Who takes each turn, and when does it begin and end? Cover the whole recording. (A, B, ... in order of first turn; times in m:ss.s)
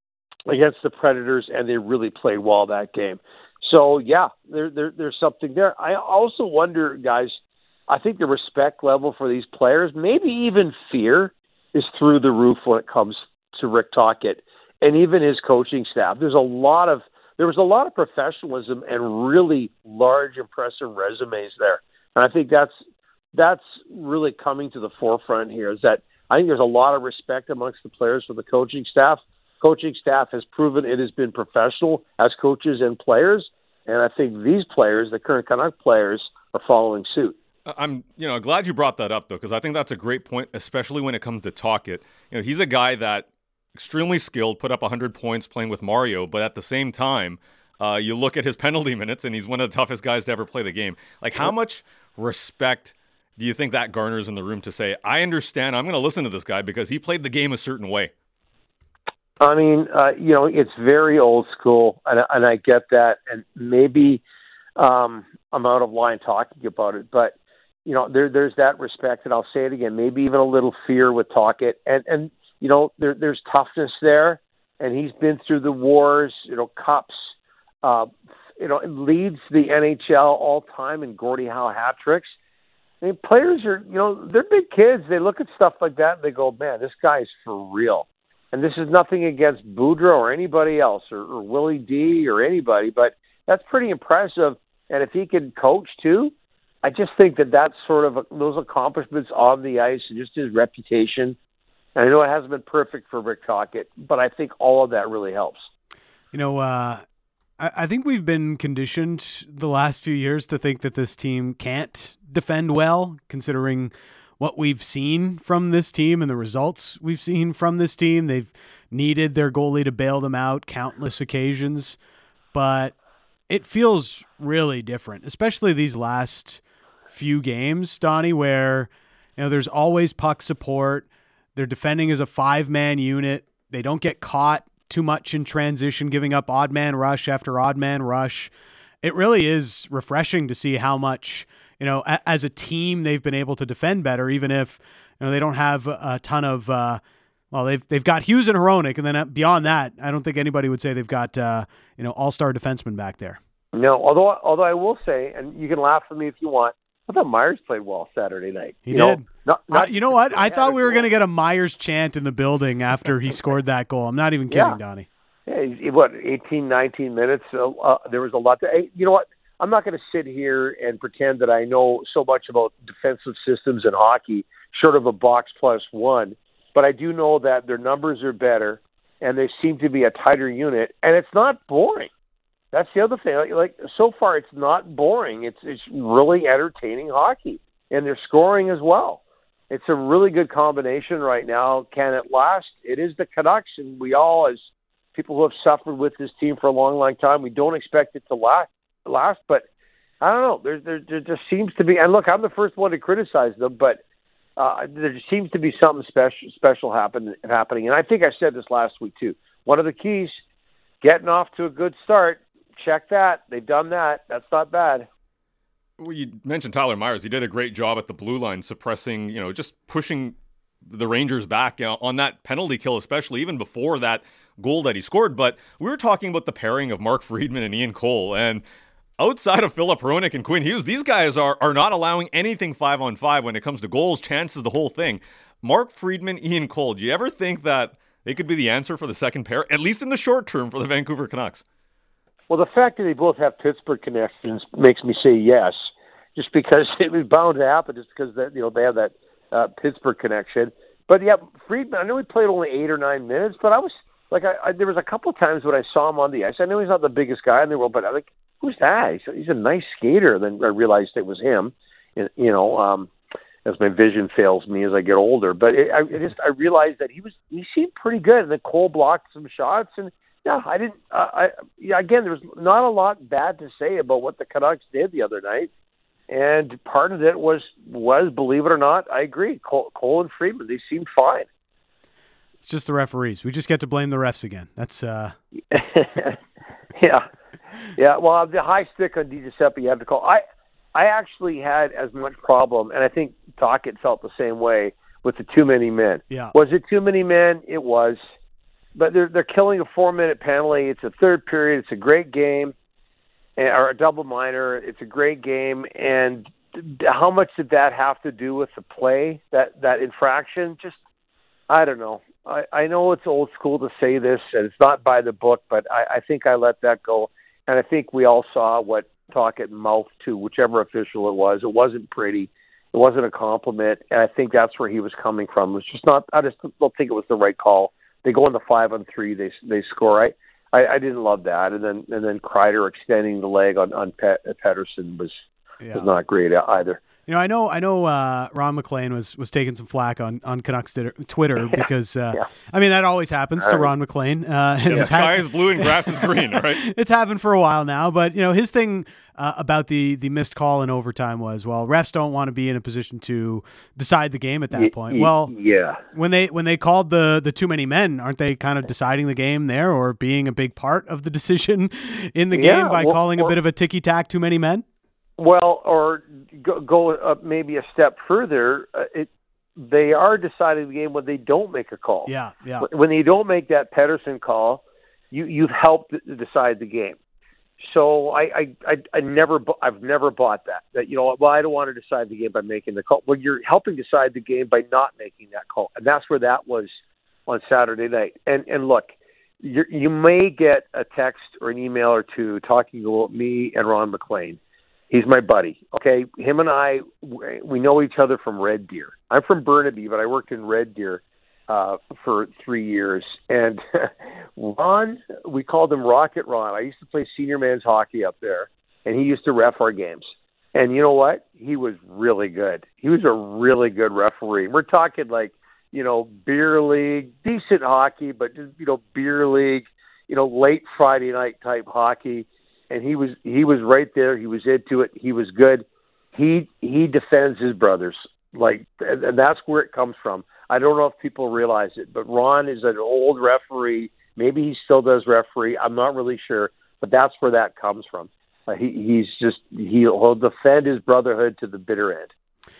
0:00.5-0:07.4 A
0:07.9-0:22.7 A
0:23.3-0:37.4 A
0:37.7-0:58.1 B
0:59.4-1:04.2 A
1:04.8-1:17.3 A
1:17.8-1:22.3 A
1:23.0-1:41.4 A
1:42.0-1:45.7 A
1:46.3-1:47.0 C
1:47.6-2:02.0 C
2:02.5-2:02.9 C
2:03.5-2:27.0 C
2:27.5-2:33.4 C
2:33.7-2:41.1 A
2:38.8-2:45.1 C
2:44.5-2:44.8 A
2:45.5-3:02.1 A
3:02.7-3:14.6 A
3:15.1-3:19.6 A
3:20.2-3:24.0 A
3:24.6-3:30.3 A
3:31.0-3:35.1 A
3:36.0-3:40.3 B
3:40.9-3:48.6 B
3:49.2-4:01.6 B
4:02.5-4:23.1 A
4:23.6-4:35.7 A
4:36.3-4:41.5 A
4:42.6-4:45.4 C
4:45.7-4:46.4 A
4:46.9-4:47.3 A
4:48.0-4:50.4 A
4:50.9-4:58.2 A
4:58.9-5:02.7 A
5:03.6-5:11.0 A
5:11.7-5:35.4 A
5:35.8-5:36.1 C
5:35.9-5:37.0 A
5:37.2-5:55.5 C
5:43.6-5:43.9 A
5:44.9-5:46.9 B
5:54.7-5:56.0 A
5:56.1-6:04.8 C
6:02.5-6:03.5 A
6:05.4-6:17.2 A
6:12.2-6:12.9 C
6:17.8-6:26.9 A
6:27.5-6:34.6 A
6:35.1-7:22.3 A